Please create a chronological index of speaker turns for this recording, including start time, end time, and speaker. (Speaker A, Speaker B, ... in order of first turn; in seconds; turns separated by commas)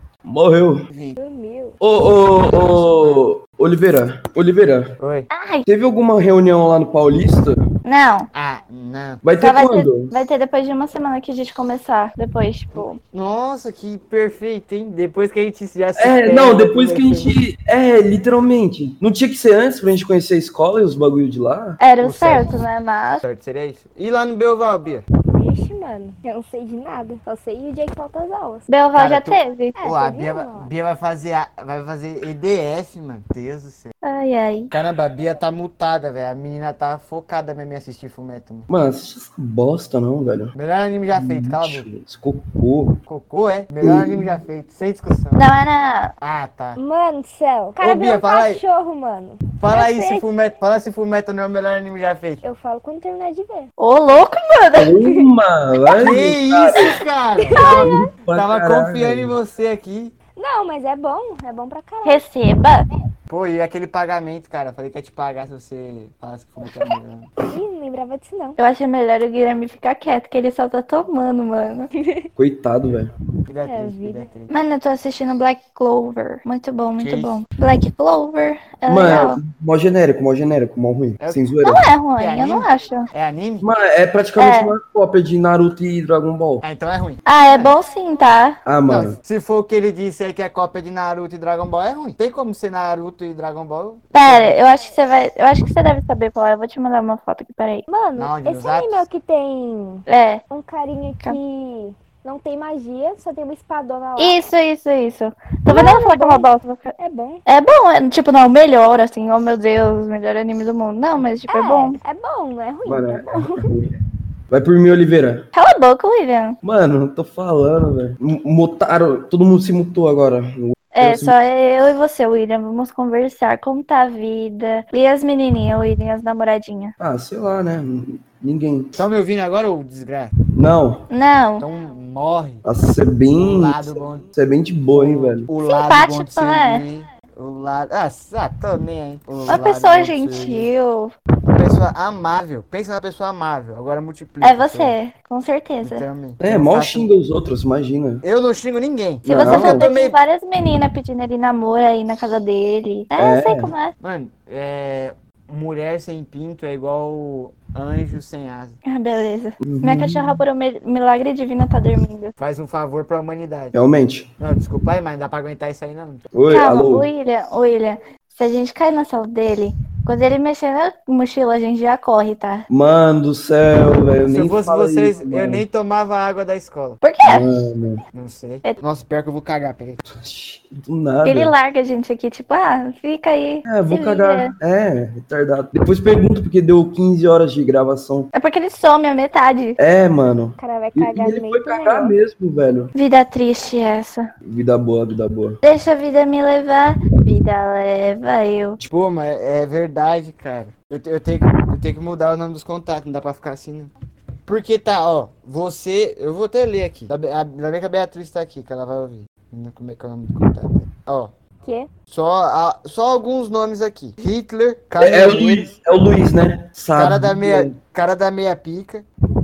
Speaker A: 0.2-0.8, Speaker B: 0.9-1.2, Speaker C: 1.2-1.8, Speaker A: 1.8-4.9, Speaker B: 2.6-3.2, Speaker B: 5.0-5.3, Speaker D: 5.3-5.6, Speaker A: 5.7-7.6, Speaker D: 7.8-8.3, Speaker B: 8.3-9.2, Speaker A: 9.2-10.1, Speaker D: 9.4-13.0, Speaker B: 12.8-17.3, Speaker A: 15.9-21.8, Speaker D: 21.8-23.2, Speaker B: 22.0-22.6, Speaker B: 23.2-25.1, Speaker C: 25.3-28.6, Speaker D: 28.7-29.8, Speaker B: 28.9-33.9, Speaker C: 29.8-30.7, Speaker D: 34.0-34.7, Speaker B: 34.7-38.7, Speaker A: 38.7-40.5, Speaker B: 40.5-41.9, Speaker A: 41.1-43.0, Speaker B: 43.0-45.5, Speaker A: 43.8-44.4, Speaker D: 45.4-46.1, Speaker B: 46.2-46.8, Speaker C: 46.7-50.2, Speaker B: 47.8-48.6, Speaker B: 49.6-52.4, Speaker C: 52.4-53.7, Speaker D: 53.8-54.9, Speaker A: 54.7-57.0, Speaker B: 56.0-60.1, Speaker C: 57.5-57.9, Speaker A: 57.6-59.3, Speaker C: 60.4-62.2, Speaker D: 62.0-62.8, Speaker B: 63.3-67.3, Speaker C: 67.5-68.6, Speaker D: 68.6-71.9, Speaker A: 72.3-73.1, Speaker B: 73.5-74.5, Speaker C: 73.6-74.3, Speaker D: 74.5-79.4, Speaker B: 77.0-77.4, Speaker A: 78.9-81.9, Speaker B: 81.2-81.5, Speaker D: 81.6-83.1, Speaker B: 82.2-83.7, Speaker A: 83.6-86.6, Speaker D: 84.4-84.7, Speaker B: 86.6-87.8, Speaker D: 87.2-88.6, Speaker A: 88.6-89.2, Speaker B: 88.8-94.6, Speaker D: 94.1-97.8, Speaker C: 97.9-104.4, Speaker B: 98.2-99.0, Speaker D: 100.1-100.4, Speaker D: 104.2-106.9, Speaker C: 105.7-106.5, Speaker C: 107.0-107.4, Speaker D: 107.5-112.0, Speaker C: 111.5-113.7, Speaker A: 112.8-114.0, Speaker A: 114.5-115.4, Speaker D: 115.5-116.6, Speaker A: 116.6-121.3, Speaker D: 120.9-126.9, Speaker A: 127.0-128.9, Speaker B: 128.9-130.3, Speaker A: 130.5-131.1, Speaker D: 131.1-131.6, Speaker B: 131.6-132.6, Speaker A: 132.6-135.5, Speaker B: 133.3-134.3, Speaker B: 134.9-140.7, Speaker D: 135.6-136.8, Speaker D: 139.5-141.1, Speaker B: 141.5-144.9, Speaker D: 144.4-146.0, Speaker B: 145.8-147.1, Speaker A: 146.4-148.2, Speaker B: 148.2-150.2, Speaker A: 149.2-149.9, Speaker D: 149.2-153.9, Speaker A: 153.2-153.7, Speaker B: 154.0-158.8, Speaker D: 158.8-162.3, Speaker A: 159.6-160.4, Speaker B: 162.4-163.7, Speaker A: 163.7-164.3, Speaker B: 164.4-166.2, Speaker A: 166.3-167.1, Speaker D: 166.5-172.6, Speaker A: 172.7-175.6, Speaker B: 174.2-177.0, Speaker D: 177.0-177.5, Speaker A: 177.2-178.0, Speaker B: 178.1-180.0, Speaker A: 180.1-181.5, Speaker D: 181.2-184.5, Speaker A: 183.7-188.3, Speaker D: 188.3-189.8, Speaker A: 189.8-192.9, Speaker C: 190.6-192.2, Speaker D: 192.9-194.2, Speaker A: 194.4-195.6, Speaker D: 195.6-198.8, Speaker B: 198.8-203.9, Speaker B: 204.4-211.3, Speaker B: 212.1-215.7, Speaker A: 215.0-217.8, Speaker B: 216.9-219.1